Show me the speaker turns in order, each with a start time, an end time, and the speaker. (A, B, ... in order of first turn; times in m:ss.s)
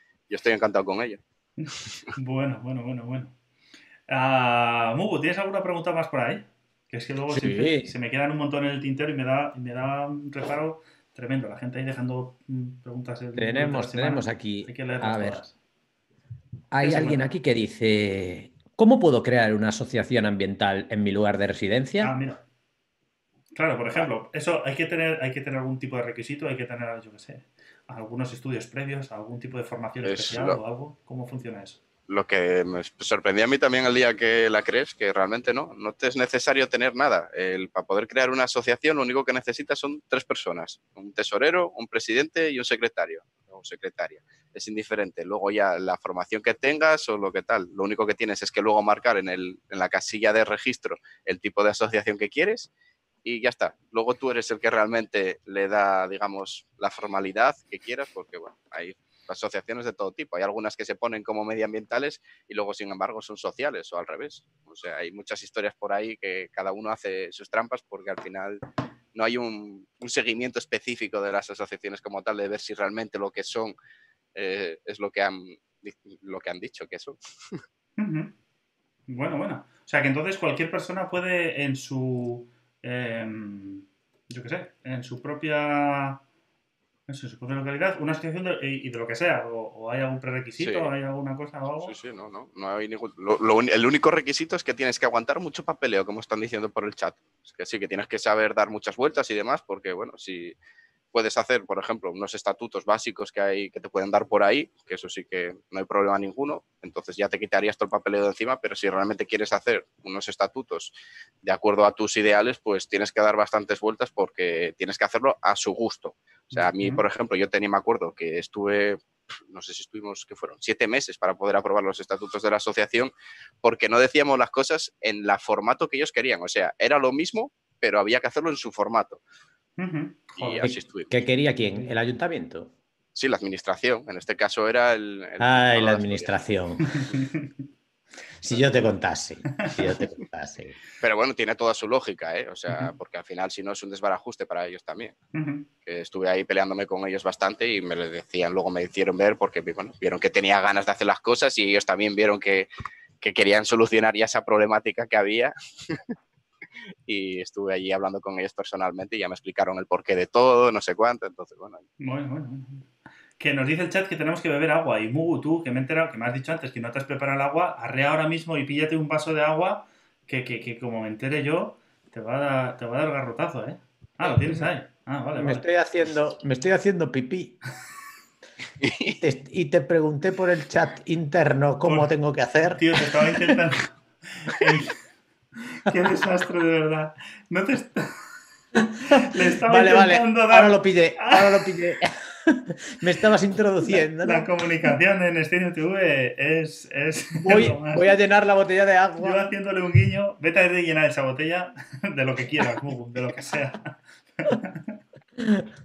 0:00.3-0:01.2 A
0:01.6-0:03.3 B
0:04.1-0:15.5 B
0:07.3-0:07.9 C
0:13.4-0:15.4 C
0:16.7-0:22.1 C
0:16.8-0:17.3 B
0:22.0-0:22.4 B
0:23.5-0:31.8 B
0:30.0-0:30.6 A
0:32.1-0:52.7 A
0:53.2-1:08.6 A
1:09.1-1:13.7 A
1:14.3-1:17.6 A
1:18.0-1:18.3 B
1:19.1-1:26.2 B
1:27.1-1:31.9 B
1:30.6-1:30.9 A
1:31.8-1:40.6 A
1:41.1-2:03.1 A
1:56.5-1:57.0 B
2:03.6-2:09.2 A
2:09.8-2:10.8 B
2:10.4-2:11.2 A
2:11.1-2:12.7 C
2:13.1-2:16.4 A
2:15.4-2:17.0 C
2:16.8-2:17.5 B
2:18.4-2:20.8 C
2:19.5-2:19.8 B
2:21.0-2:25.2 A
2:25.3-2:25.7 B
2:25.8-2:32.7 A
2:33.2-2:36.1 A
2:37.1-2:41.8 A
2:42.0-2:42.9 B
2:43.4-2:55.7 B
2:55.4-2:57.6 C
2:58.8-2:59.2 A
2:59.2-3:03.1 C
3:02.7-3:05.0 B
3:05.7-3:11.8 B
3:09.7-3:14.9 C
3:13.9-3:18.1 B
3:17.4-3:19.4 C
3:19.2-3:25.0 B